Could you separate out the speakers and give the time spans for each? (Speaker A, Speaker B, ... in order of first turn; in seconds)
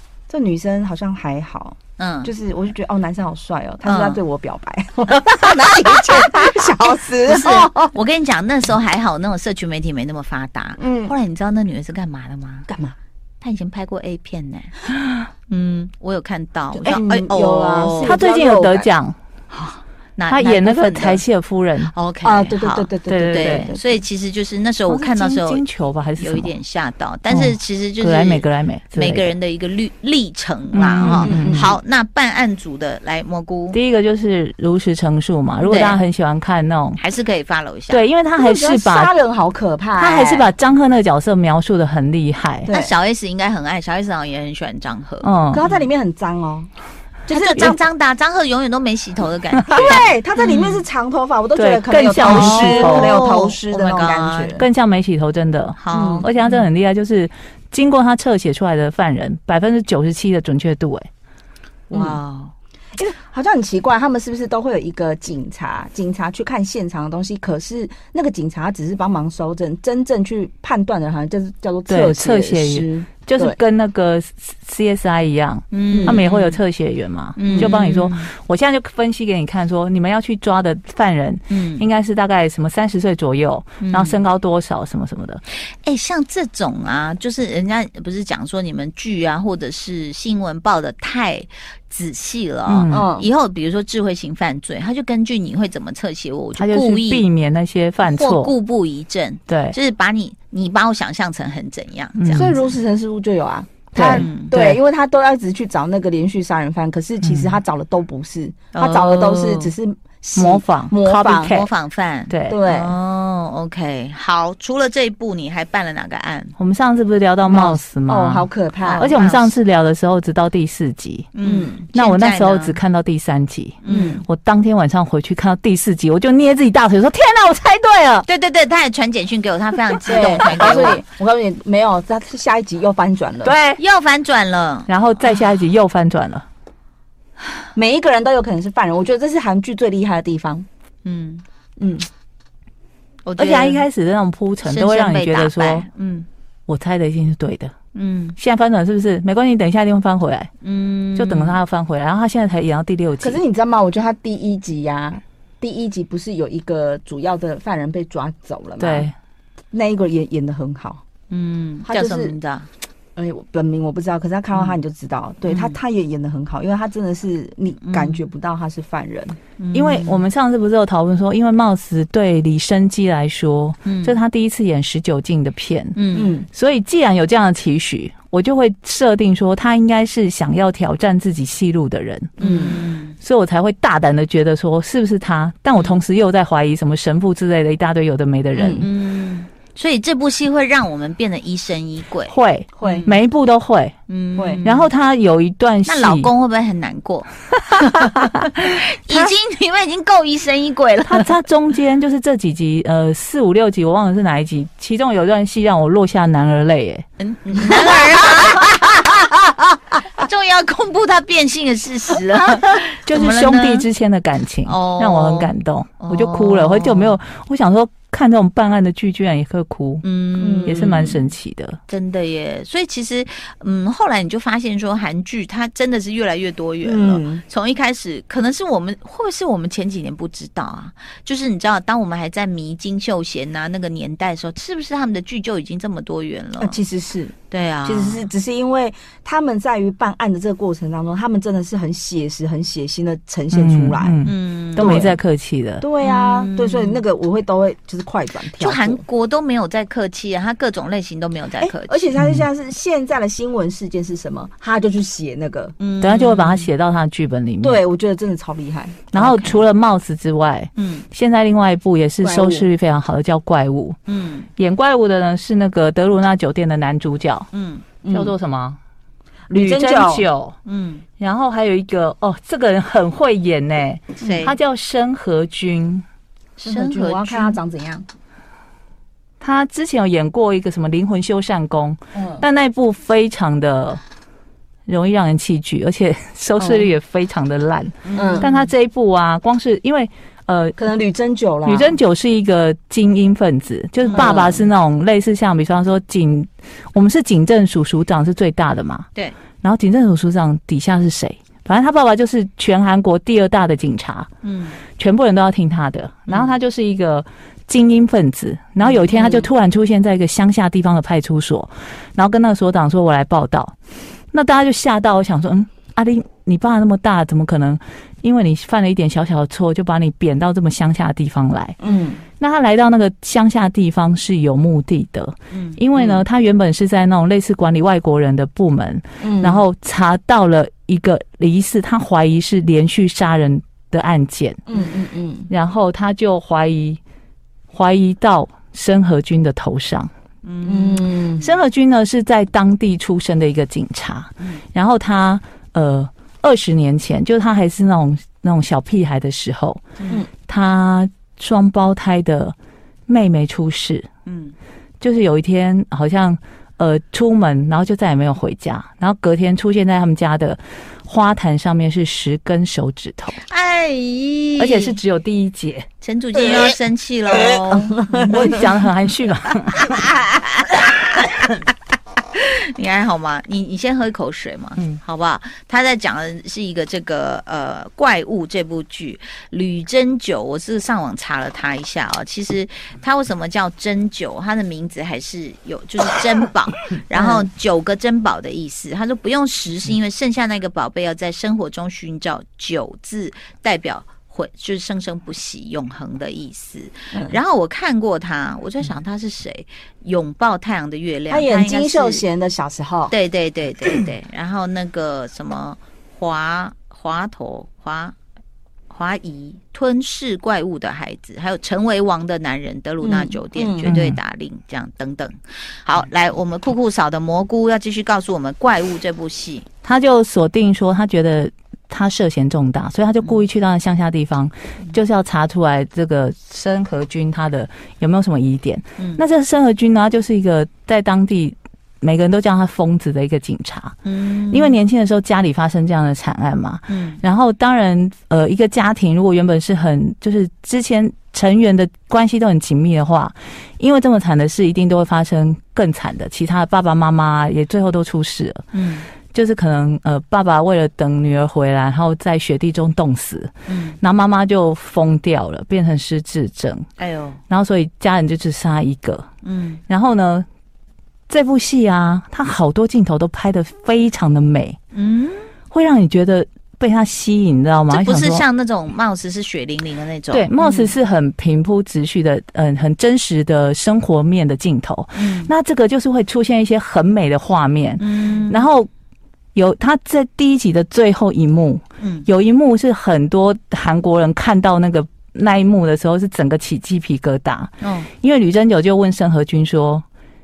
Speaker A: 0.3-7.9, 10.8-11.2, 12.7-12.9, 16.9-18.9, 22.2-24.0, 31.1-31.8, 38.4-40.5, 42.7-42.9, 45.5-46.7, 47.3-47.8, 49.7-54.6, 55.9-56.3, 61.9-62.2, 63.0-73.6, 75.9-76.2, 77.5-77.7, 92.9-93.3, 102.3-111.6, 112.5-113.0, 117.5-119.1, 121.4-121.7, 123.9-124.2, 130.1-133.6, 137.8-140.7, 141.8-142.1, 153.2-159.1, 159.7-161.0, 161.9-162.3, 163.2-169.4, 176.1-176.5, 182.4-182.8, 188.6-188.9, 192.8-193.1, 194.4-194.6, 220.4-221.0, 226.8-227.4, 236.6-244.2, 244.8-245.2, 245.8-249.0, 251.6-255.8, 257.6-259.5, 262.2-262.7, 268.0-268.4, 269.5-270.2, 276.6-278.1, 282.1-282.4, 286.6-286.9, 288.1-288.5, 290.8-292.0, 294.1-294.7, 309.1-309.5, 321.8-322.2, 326.0-326.2, 329.2-329.6, 334.7-335.5, 340.6-341.5, 366.4-366.7, 367.4-368.6, 387.1-387.5, 401.3-403.1, 413.0-413.9, 470.6-470.9
Speaker B: 2.0-2.3, 3.9-4.2, 5.9-6.2, 7.2-12.7, 13.4-14.7, 15.5-18.2, 19.5-21.2, 21.9-25.6, 26.2-33.8, 35.6-36.0, 37.0-38.0, 42.7-45.8, 47.3-50.8, 52.2-54.6, 55.8-56.6, 61.9-62.5, 75.7-76.6, 77.4-78.3, 81.5-81.9, 83.8-84.2, 85.8-97.2, 98.0-102.7, 104.1-104.5, 108.7-109.7, 111.4-116.5, 118.8-119.5, 121.3-122.8, 123.8-124.2, 128.3-131.0, 133.8-134.9, 141.1-141.4, 143.2-143.8, 144.7-146.3, 147.9-148.4, 150.6-151.6, 161.3-162.7, 165.5-165.8, 167.8-168.2, 169.6-170.2, 173.9-174.2, 176.0-176.3, 182.4-183.2, 188.8-193.2, 194.1-194.9, 195.9-201.3, 207.2-213.9, 214.7-217.2, 220.0-221.3, 221.9-236.8, 237.5-238.3, 244.2-245.1, 246.0-247.0, 248.6-252.0, 255.8-256.7, 260.8-261.1, 264.1-264.5, 267.5-267.9, 270.7-271.0, 274.2-274.6, 276.6-277.6, 288.1-288.7, 294.1-294.4, 304.4-304.8, 306.3-306.5, 325.5-325.8, 340.4-341.2, 354.3-354.6, 363.5-365.0, 366.0-368.6, 369.8-371.6, 372.3-402.2, 403.1-408.1, 408.9-419.7, 434.1-434.8, 436.9-437.2, 448.7-449.1, 453.7-454.0, 457.0-457.4, 459.4-459.8, 464.9-465.5, 467.9-470.5, 475.1-475.5, 478.0-478.7, 482.0-482.3, 487.8-488.1
Speaker C: 18.0-19.2, 20.3-21.9, 23.1-23.7, 24.9-26.5, 27.3-29.3, 30.7-31.7, 33.7-37.0, 37.9-39.1, 40.0-42.7, 45.2-45.6, 49.5-50.0, 51.5-53.2, 54.6-61.1, 71.9-85.4, 92.7-93.1, 96.6-98.5, 99.5-99.8, 102.2-102.5, 104.0-104.8, 107.2-107.6, 110.4-111.7, 112.3-112.6, 116.6-118.5, 119.0-121.3, 121.9-128.3, 133.4-133.8, 134.9-136.4, 143.4-145.9, 146.7-147.7, 148.4-150.5, 151.2-153.4, 158.8-159.1, 169.7-176.0, 176.5-182.4, 183.2-188.9, 192.3-194.0, 194.6-196.3, 197.8-198.4, 201.1-207.1, 213.1-220.0, 220.7-221.8, 243.5-245.8, 252.2-252.5, 256.0-257.8, 259.1-264.0, 264.6-267.5, 268.1-268.8, 269.5-270.6, 271.2-276.1, 279.4-284.0, 284.9-290.8, 291.7-299.1, 299.6-304.3, 304.9-313.8, 314.3-321.8, 322.4-334.6, 335.5-337.0, 337.7-340.1, 341.4-349.9, 350.5-352.6, 353.1-354.1, 355.0-363.4, 364.6-365.9, 368.2-370.0, 413.9-414.2, 419.8-434.0, 434.5-448.7, 449.3-456.9, 457.5-459.3, 459.9-460.5, 461.3-464.8, 465.7-468.4, 470.3-478.9, 479.6-490.0